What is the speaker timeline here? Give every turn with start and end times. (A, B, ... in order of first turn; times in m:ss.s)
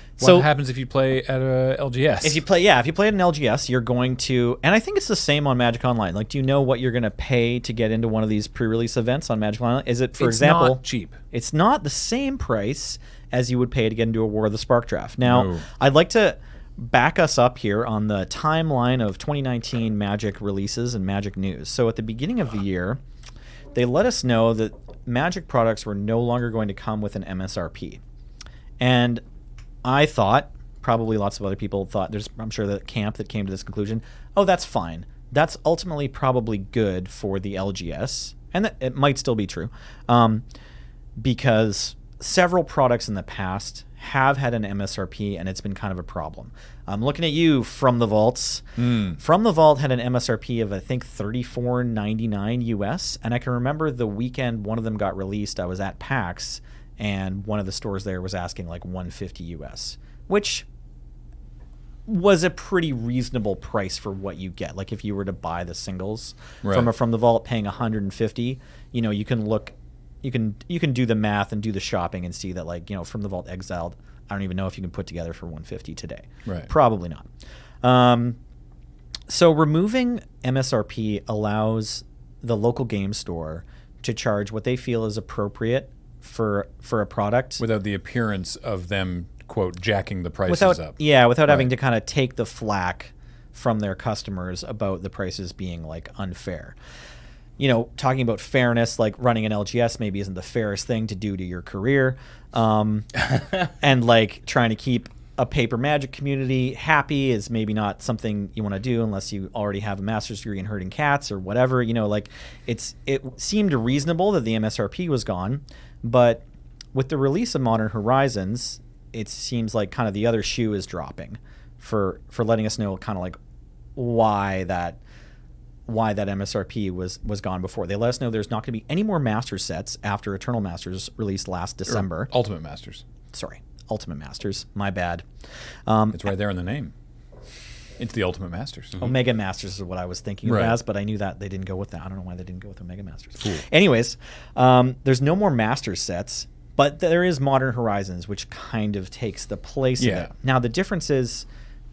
0:00.2-0:00.5 A
0:00.2-0:02.4 B
0:02.2-0:23.0 A
0:10.2-0:11.2 B
0:15.2-0:15.7 B
0:23.7-0:28.0 A
0:28.8-0:29.2 A
0:29.8-0:40.4 A
0:41.2-1:00.7 A
0:48.8-0:49.2 B
1:02.1-1:17.3 A
1:06.6-1:06.9 B
1:17.8-1:18.4 A
1:19.3-1:27.6 A
1:27.6-1:31.7 B
1:30.5-1:36.8 A
1:37.6-1:43.1 A
1:43.8-2:03.4 A
2:04.0-2:05.0 A
2:05.9-2:12.3 A
2:11.9-2:13.0 B
2:13.3-2:15.2 A
2:15.9-2:16.3 A
2:16.1-2:16.9 B
2:18.0-2:19.0 B
2:19.0-2:31.5 A
2:20.5-2:20.8 B
2:30.0-2:30.3 B